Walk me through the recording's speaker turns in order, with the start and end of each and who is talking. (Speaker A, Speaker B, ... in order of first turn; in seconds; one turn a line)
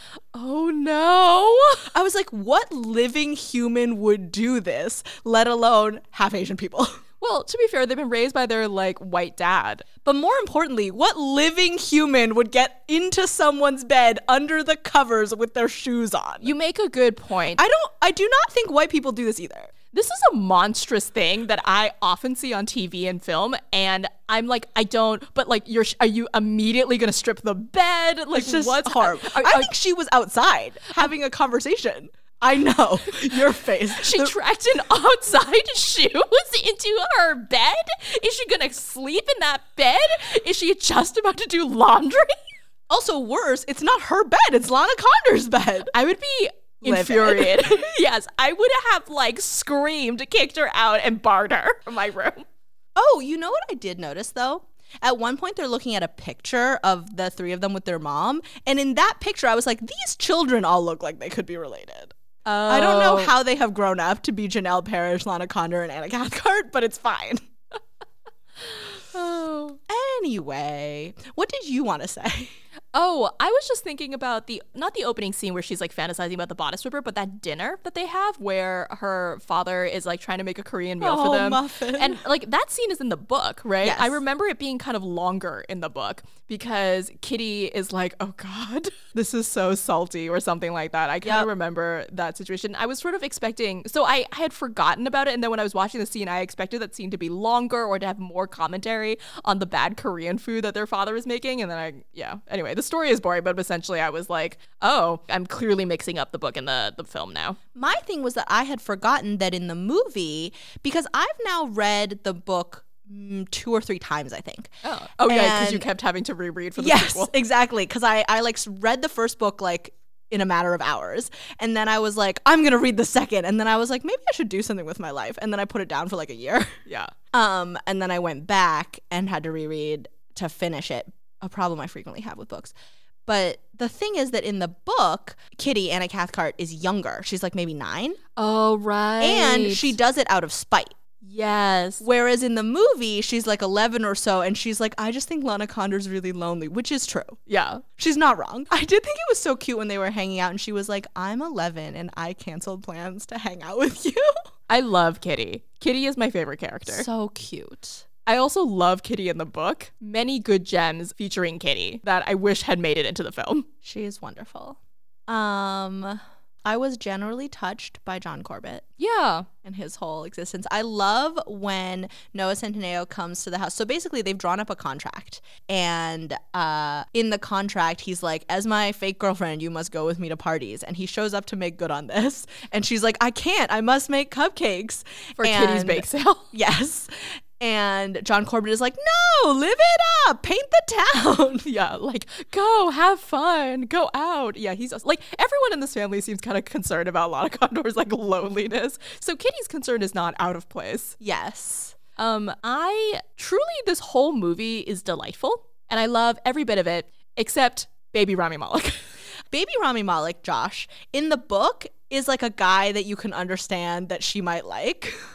Speaker A: 0.3-1.9
Speaker B: 1.9-7.0
Speaker A: 7.2-9.8
Speaker B: 10.0-16.5
Speaker A: 16.4-17.6
Speaker B: 17.6-19.7
Speaker A: 19.9-29.7
Speaker B: 28.3-34.3
Speaker A: 33.9-42.3
Speaker B: 42.9-45.9
Speaker A: 45.9-52.4
Speaker B: 46.8-47.8
Speaker B: 53.0-62.1
Speaker A: 62.4-63.3
Speaker B: 62.7-67.4
Speaker A: 68.6-69.8
Speaker B: 69.9-72.5
Speaker A: 72.9-107.6
Speaker B: 81.0-82.2
Speaker B: 83.8-84.2
Speaker B: 107.7-114.7
Speaker A: 114.8-117.3
Speaker B: 115.2-115.8
Speaker B: 116.8-126.7
Speaker A: 126.8-127.1
Speaker B: 127.3-132.7
Speaker B: 133.2-138.2
Speaker A: 138.3-139.9
Speaker B: 139.2-140.9
Speaker A: 141.2-142.1
Speaker B: 142.0-147.4
Speaker A: 147.5-147.8
Speaker B: 148.0-154.3
Speaker A: 154.7-157.1
Speaker B: 156.9-158.1
Speaker A: 158.2-163.7
Speaker B: 163.8-168.8
Speaker A: 169.0-169.5
Speaker B: 169.6-191.7
Speaker A: 185.4-186.4
Speaker A: 191.7-201.2
Speaker B: 201.2-201.9
Speaker A: 202.2-209.0
Speaker B: 209.5-215.2